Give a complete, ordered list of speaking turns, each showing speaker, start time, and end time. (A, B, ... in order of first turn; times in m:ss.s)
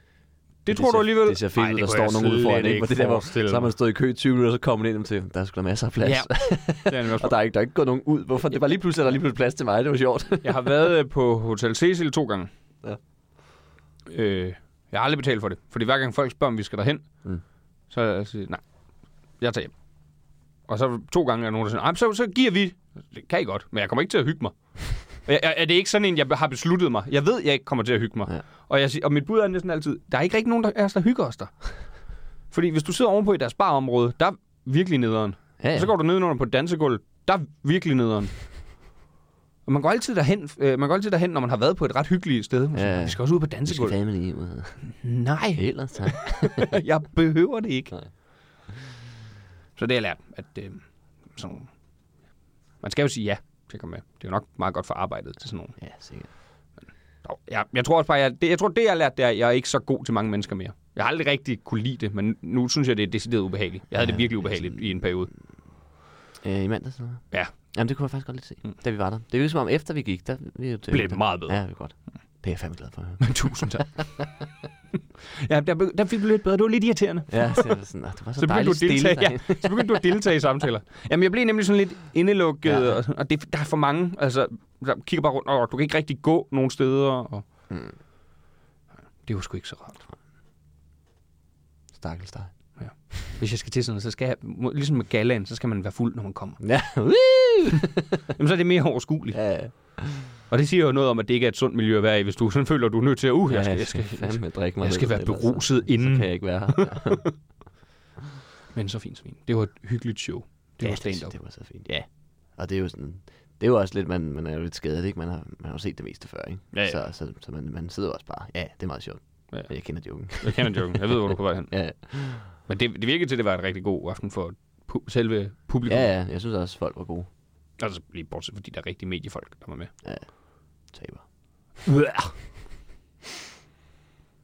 0:00.6-0:03.7 A
0:00.7-0:10.7 B
0:06.0-0:07.4 A
0:10.4-0:12.5 A
0:14.1-0:17.2 A
0:17.9-0:18.6 A
0:19.4-0:19.7 A
0:20.7-0:31.7 A
0:32.5-0:38.3 A
0:35.6-0:35.9 B
0:39.6-0:44.0 A
0:42.7-0:44.9 B
0:45.0-0:47.9 A
0:45.5-0:46.7 B
0:49.8-0:51.7 A
0:52.8-0:55.8 A
0:55.8-0:56.3 B
0:57.2-1:05.3 A
1:04.1-1:04.6 B
1:06.4-1:14.0 B
1:10.9-1:11.6 A
1:13.2-1:14.0 A
1:15.4-1:17.8 A
1:17.3-1:20.0 B
1:18.4-1:27.4 A
1:22.6-1:23.0 B
1:27.7-1:28.0 B
1:29.2-1:30.0 A
1:31.9-1:32.5 B
1:32.8-1:36.7 A
1:36.6-1:38.2 B
1:38.4-1:47.2 A
1:39.3-1:40.3 B
1:43.5-1:47.4 B
1:48.7-1:52.0 A
1:50.8-2:02.5 B
1:56.7-1:57.0 A
1:59.5-2:06.1 A
2:05.9-2:07.3 B
2:07.8-2:09.9 A
2:10.0-2:10.3 B
2:10.8-2:11.2 B
2:11.8-2:12.3 A